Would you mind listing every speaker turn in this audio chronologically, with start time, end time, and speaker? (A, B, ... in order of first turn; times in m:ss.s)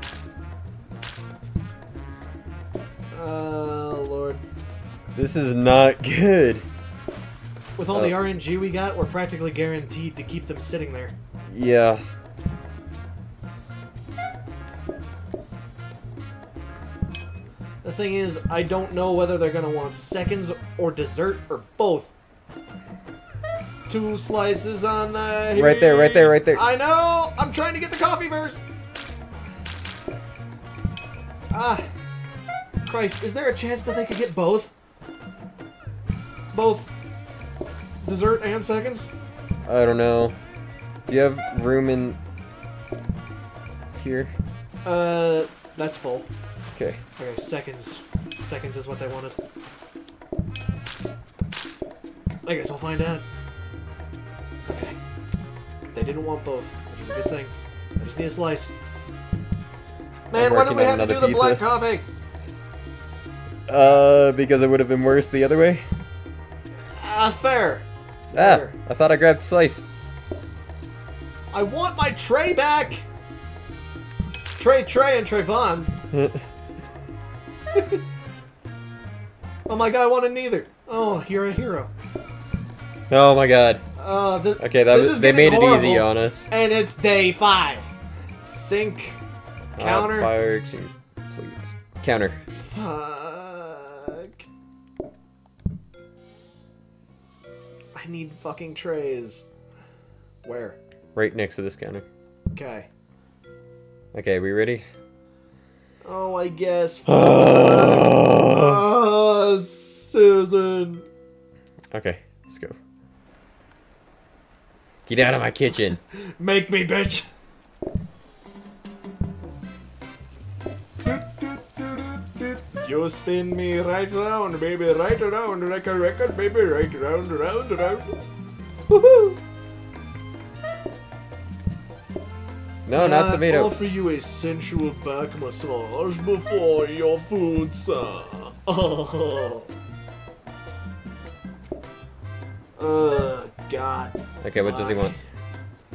0:03.1-0:04.4 A
0:05.1-0:06.6 B
0:07.8-0:11.1 A
0:11.5-0:12.0 B
0:17.8-0:22.1 A
0:23.9-0:28.6 A
0:25.5-0:26.6 B
0:31.5-0:31.8 A
0:32.8-0:34.7 A
0:36.5-0:36.9 A
0:38.0-0:39.1 A
0:39.6-0:40.4 B
0:41.1-0:42.2 B
0:43.9-0:44.3 B
0:44.8-0:46.3 A
0:47.2-0:49.4 A
0:52.4-0:53.2 A
0:54.6-0:55.0 A
0:55.9-0:58.7 A
1:00.3-1:02.0 A
1:00.3-1:01.6 B
1:03.7-1:05.8 B
1:06.9-1:08.7 A
1:08.3-1:09.8 B
1:11.5-1:13.0 A
1:14.6-1:15.9 A
1:16.1-1:16.4 B
1:17.7-1:18.0 A
1:19.7-1:21.9 A
1:23.1-1:23.8 B
1:24.0-1:29.2 A
1:24.6-1:26.5 B
1:29.8-1:32.4 B
1:29.8-1:30.3 A
1:32.6-1:34.4 A
1:37.9-1:39.4 A
1:40.4-1:40.8 A
1:41.2-1:42.1 B
1:42.5-1:42.9 A
1:44.1-1:44.8 B
1:46.0-1:51.1 A
1:47.1-1:48.8 B
1:51.9-1:52.8 B
1:55.0-1:56.0 B
1:56.2-1:57.3 A
2:01.0-2:08.1 A
2:08.9-2:09.4 A
2:12.8-2:13.7 B
2:12.9-2:19.7 A
2:22.8-2:25.2 A
2:24.4-2:25.1 B